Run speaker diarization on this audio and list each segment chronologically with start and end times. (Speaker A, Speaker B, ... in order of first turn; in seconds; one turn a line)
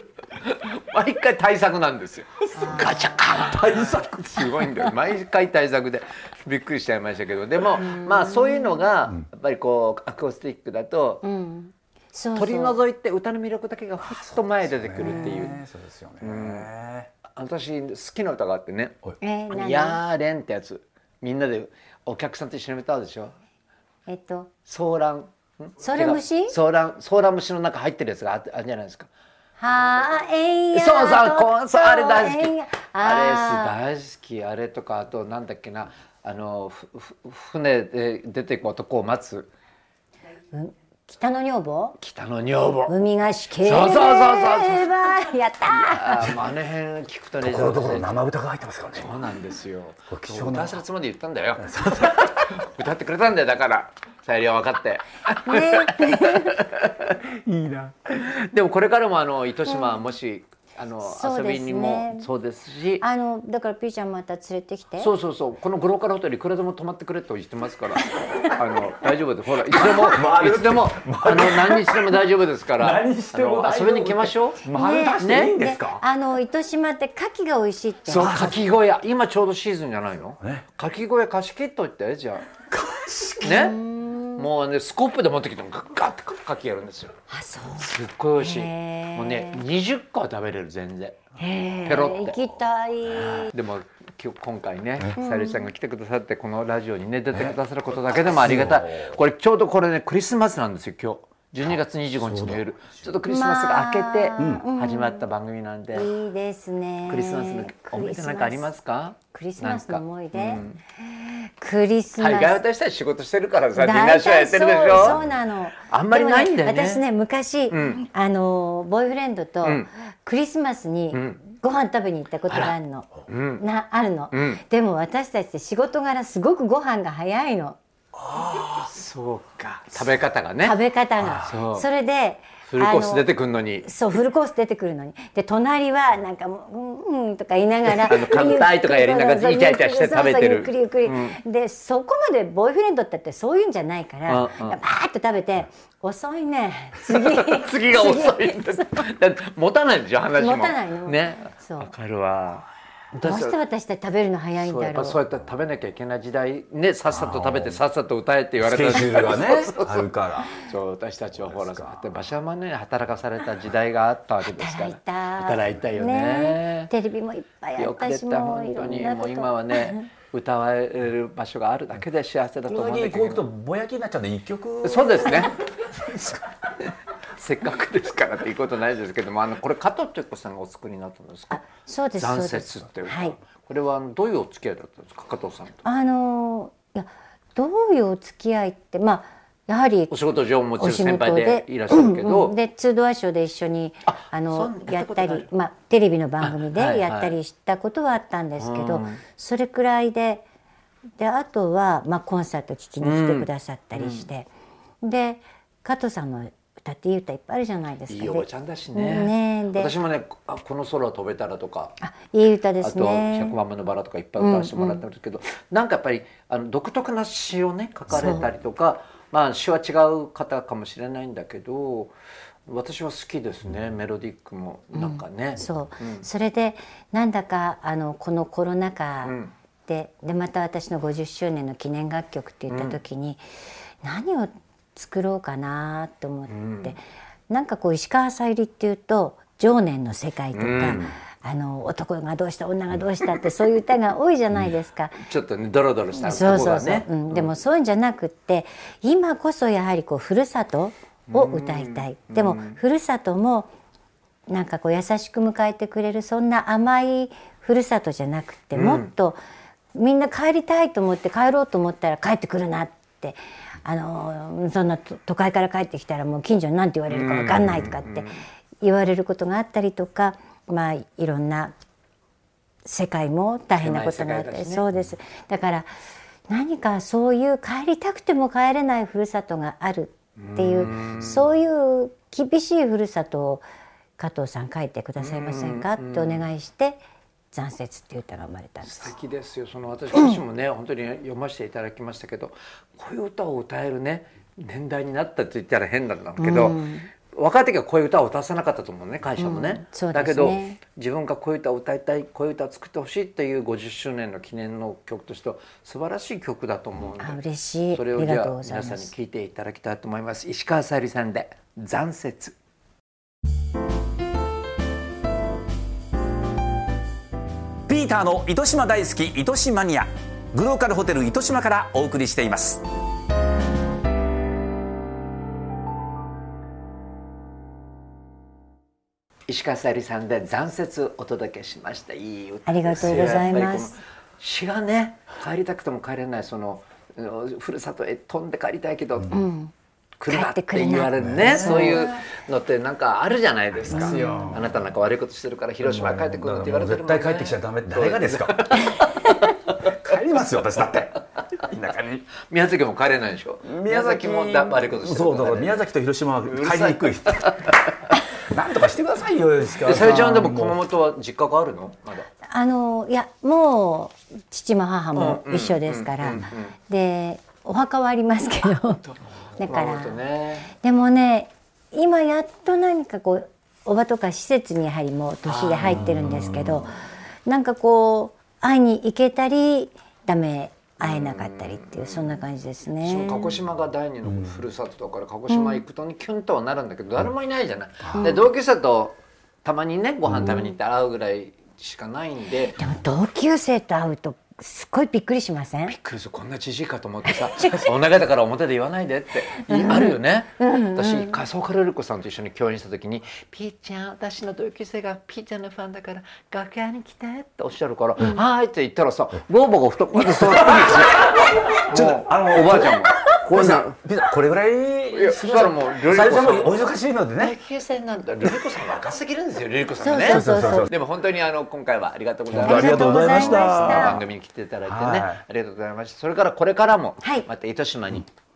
Speaker A: 0.4-11.2
Speaker B: 2.5-3.2
Speaker C: 3.4-4.7
Speaker B: 7.8-8.8
Speaker B: 11.2-12.8
Speaker A: 12.3-15.6
Speaker C: 14.1-17.1
Speaker B: 15.0-15.4
Speaker A: 16.2-16.7
Speaker A: 17.3-19.0
Speaker B: 19.2-20.0
Speaker A: 19.5-23.3
Speaker B: 24.1-24.5
Speaker A: 24.7-29.1
Speaker B: 25.8-26.5
Speaker B: 29.6-33.7
Speaker A: 30.7-39.5
Speaker B: 40.5-42.0
Speaker A: 42.0-42.9
Speaker B: 42.9-46.3
Speaker A: 43.6-45.1
Speaker A: 45.7-48.1
Speaker C: 47.4-49.1
Speaker A: 48.9-57.2
Speaker C: 50.1-50.8
Speaker C: 51.6-52.6
Speaker B: 55.4-56.6
Speaker C: 57.2-58.1
Speaker A: 58.2-63.0
Speaker B: 61.0-62.2
Speaker B: 63.0-65.1
Speaker A: 65.0-74.6
Speaker B: 68.2-68.5
Speaker C: 69.8-72.2
Speaker C: 72.8-76.0
Speaker B: 74.7-78.5
Speaker A: 75.2-75.5
Speaker A: 78.1-82.5
Speaker C: 78.2-78.6
Speaker C: 82.7-83.6
Speaker A: 83.4-83.8
Speaker B: 83.4-84.5
Speaker A: 84.4-87.1
Speaker B: 87.3-89.6
Speaker A: 87.8-91.2
Speaker B: 91.4-93.5
Speaker A: 91.8-92.4
Speaker A: 93.5-106.1
Speaker B: 95.2-95.6
Speaker C: 98.4-99.2
Speaker C: 102.2-102.6
Speaker B: 103.3-105.2
Speaker C: 104.4-104.6
Speaker B: 105.9-108.7
Speaker A: 107.1-110.8
Speaker B: 109.3-112.6
Speaker A: 112.2-115.2
Speaker B: 113.8-127.8
Speaker A: 115.9-117.0
Speaker A: 117.7-118.0
Speaker A: 121.1-121.4
Speaker A: 123.3-123.6
Speaker A: 124.3-124.6
Speaker C: 128.3-128.9
Speaker A: 128.5-130.8
Speaker B: 130.6-133.2
Speaker A: 131.4-131.9
Speaker A: 132.7-133.9
Speaker B: 133.8-148.9
Speaker A: 137.9-141.4
Speaker A: 144.3-144.8
Speaker A: 147.1-153.6
Speaker B: 150.4-151.9
Speaker B: 153.2-155.2
Speaker A: 154.6-166.9
Speaker C: 157.1-157.8
Speaker C: 158.6-160.5
Speaker B: 164.4-170.1
Speaker A: 167.8-173.4
Speaker C: 172.7-175.5
Speaker A: 174.8-175.6
Speaker A: 176.2-181.7
Speaker B: 181.5-183.3
Speaker A: 182.2-185.8
Speaker B: 185.8-190.1
Speaker A: 190.1-192.5
Speaker B: 190.8-200.4
Speaker A: 194.1-195.5
Speaker A: 196.4-197.3
Speaker A: 198.6-199.2
Speaker B: 201.2-204.5
Speaker A: 203.0-204.2
Speaker B: 205.0-209.9
Speaker A: 208.1-212.0
Speaker B: 212.0-213.6
Speaker A: 212.8-222.1
Speaker B: 214.4-215.0
Speaker B: 218.1-218.5
Speaker A: 222.7-226.2
Speaker B: 224.9-229.3
Speaker A: 229.2-229.5
Speaker B: 229.9-233.4
Speaker A: 232.7-233.0
Speaker B: 234.0-245.2
Speaker A: 236.5-236.9
Speaker A: 240.5-241.1
Speaker A: 245.2-247.5
Speaker B: 246.2-253.7
Speaker A: 251.3-252.8
Speaker B: 254.5-259.4
Speaker A: 258.7-259.1
Speaker B: 259.9-268.3
Speaker A: 267.1-268.4
Speaker B: 268.8-271.7
Speaker B: 272.8-275.9
Speaker A: 273.8-274.8
Speaker B: 276.5-283.6
Speaker A: 280.4-281.4
Speaker B: 284.2-287.0
Speaker A: 285.2-286.4
Speaker B: 287.5-289.1
Speaker A: 288.8-307.4
Speaker B: 296.4-297.1
Speaker B: 299.4-300.8
Speaker B: 307.2-309.1
Speaker A: 307.9-312.5
Speaker C: 317.9-322.8
Speaker A: 329.5-339.4
Speaker B: 332.6-333.9
Speaker B: 339.3-339.7
Speaker A: 340.2-349.5
Speaker B: 340.3-342.2
Speaker C: 341.2-341.9
Speaker C: 343.9-344.7
Speaker B: 344.0-344.5
Speaker C: 345.8-348.9
Speaker C: 349.8-352.3
Speaker A: 352.4-355.8
Speaker C: 353.6-357.6
Speaker A: 356.5-357.8
Speaker C: 358.4-360.8
Speaker A: 359.8-362.3
Speaker B: 362.5-369.0
Speaker A: 365.1-366.7
Speaker A: 369.6-370.7
Speaker B: 369.6-370.2
Speaker B: 370.8-376.9
Speaker A: 375.5-376.2
Speaker C: 376.0-376.8
Speaker B: 377.4-383.6
Speaker A: 381.0-382.4
Speaker A: 383.0-392.8
Speaker B: 385.5-385.8
Speaker B: 392.8-395.9
Speaker A: 395.9-414.0
Speaker B: 397.6-397.8
Speaker B: 399.7-401.3
Speaker C: 410.4-417.5
Speaker A: 415.1-416.8
Speaker A: 417.4-428.3
Speaker B: 420.0-420.9
Speaker C: 420.2-420.9
Speaker C: 422.5-424.2
Speaker B: 422.6-424.2
Speaker C: 424.9-425.4
Speaker B: 427.2-427.5